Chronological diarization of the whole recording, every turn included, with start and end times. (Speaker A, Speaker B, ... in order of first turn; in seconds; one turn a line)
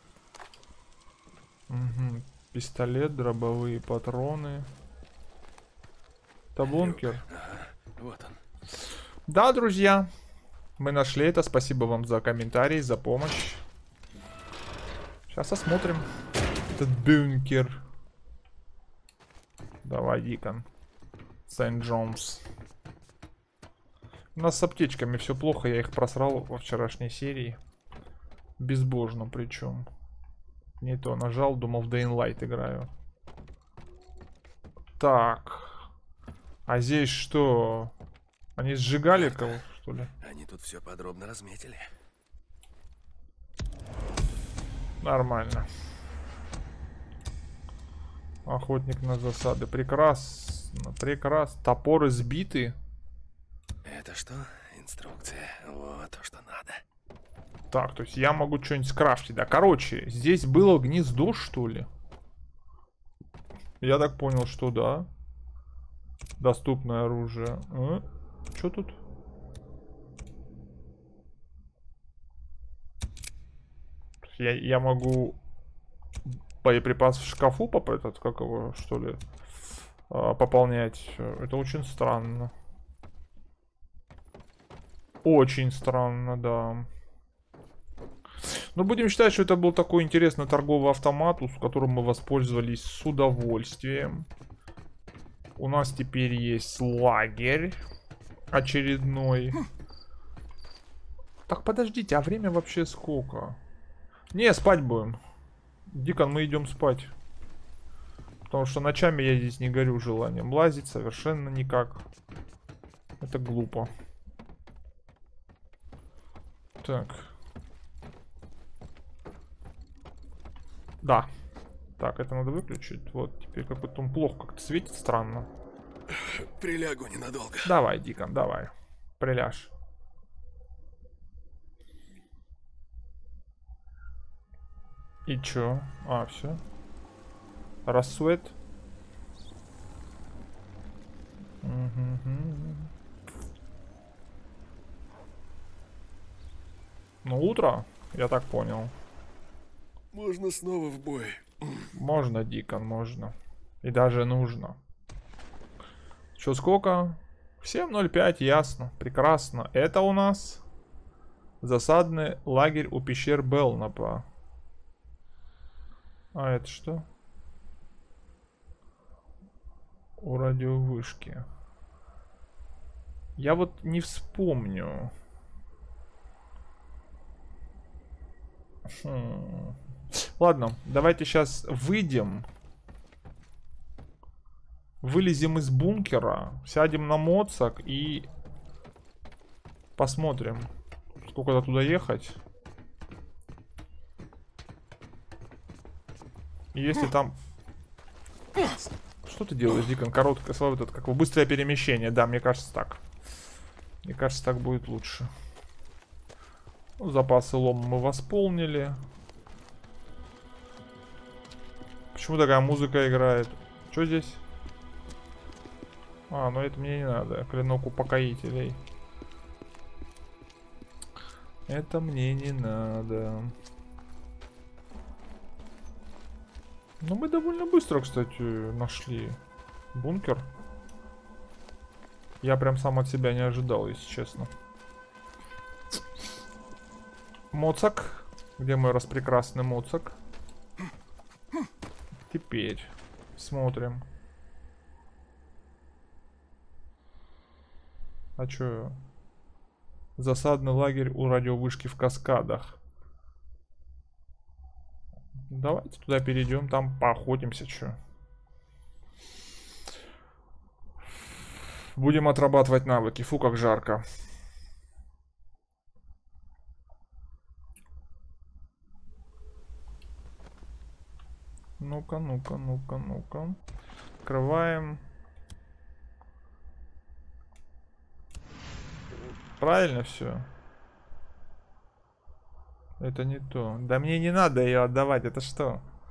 Speaker A: 1.7-4.7
Speaker A: 6.5-7.2
Speaker B: 6.6-8.4
Speaker A: 9.3-10.1
Speaker A: 10.8-13.6
Speaker A: 15.3-16.1
Speaker A: 16.8-17.8
Speaker A: 19.8-20.7
Speaker A: 21.5-22.4
Speaker A: 24.3-27.6
Speaker A: 28.6-29.9
Speaker A: 30.8-32.9
Speaker A: 35.0-35.9
Speaker A: 36.7-37.9
Speaker A: 38.6-40.1
Speaker B: 39.1-39.6
Speaker B: 40.2-41.9
Speaker A: 45.0-45.7
Speaker A: 48.5-52.8
Speaker B: 53.8-56.8
Speaker A: 57.7-61.9
Speaker A: 63.8-65.1
Speaker A: 66.4-69.0
Speaker A: 74.2-75.4
Speaker A: 76.6-79.2
Speaker A: 80.1-82.5
Speaker A: 85.2-86.9
Speaker A: 88.5-94.3
Speaker A: 95.6-97.8
Speaker A: 98.5-99.6
Speaker A: 101.5-103.6
Speaker A: 104.3-105.2
Speaker A: 105.9-107.1
Speaker A: 108.5-112.0
Speaker A: 113.2-113.9
Speaker A: 116.8-117.3
Speaker A: 121.0-121.3
Speaker A: 122.0-125.5
Speaker B: 126.1-127.8
Speaker A: 127.6-129.7
Speaker A: 135.3-136.6
Speaker A: 137.8-138.5
Speaker A: 141.6-142.9
Speaker A: 147.2-148.9
Speaker B: 150.1-151.9
Speaker A: 151.9-154.8
Speaker A: 156.4-160.6
Speaker A: 161.6-164.3
Speaker A: 166.3-167.1
Speaker A: 170.2-171.4
Speaker A: 173.4-175.1
Speaker A: 178.9-182.5
Speaker A: 185.0-188.3
Speaker A: 190.0-190.7
Speaker A: 191.2-192.4
Speaker A: 196.7-197.3
Speaker A: 199.2-203.0
Speaker A: 204.0-205.3
Speaker A: 207.0-209.0
Speaker A: 212.1-214.4
Speaker A: 216.3-218.8
Speaker A: 221.7-223.5
Speaker A: 227.0-229.4
Speaker A: 229.9-230.5
Speaker A: 232.4-234.5
Speaker A: 237.5-240.2
Speaker A: 242.3-244.1
Speaker A: 248.4-249.0
Speaker A: 250.2-252.8
Speaker A: 255.5-258.0
Speaker A: 261.9-264.0
Speaker A: 271.8-273.6
Speaker A: 274.2-275.0
Speaker A: 279.6-280.5
Speaker A: 283.0-285.8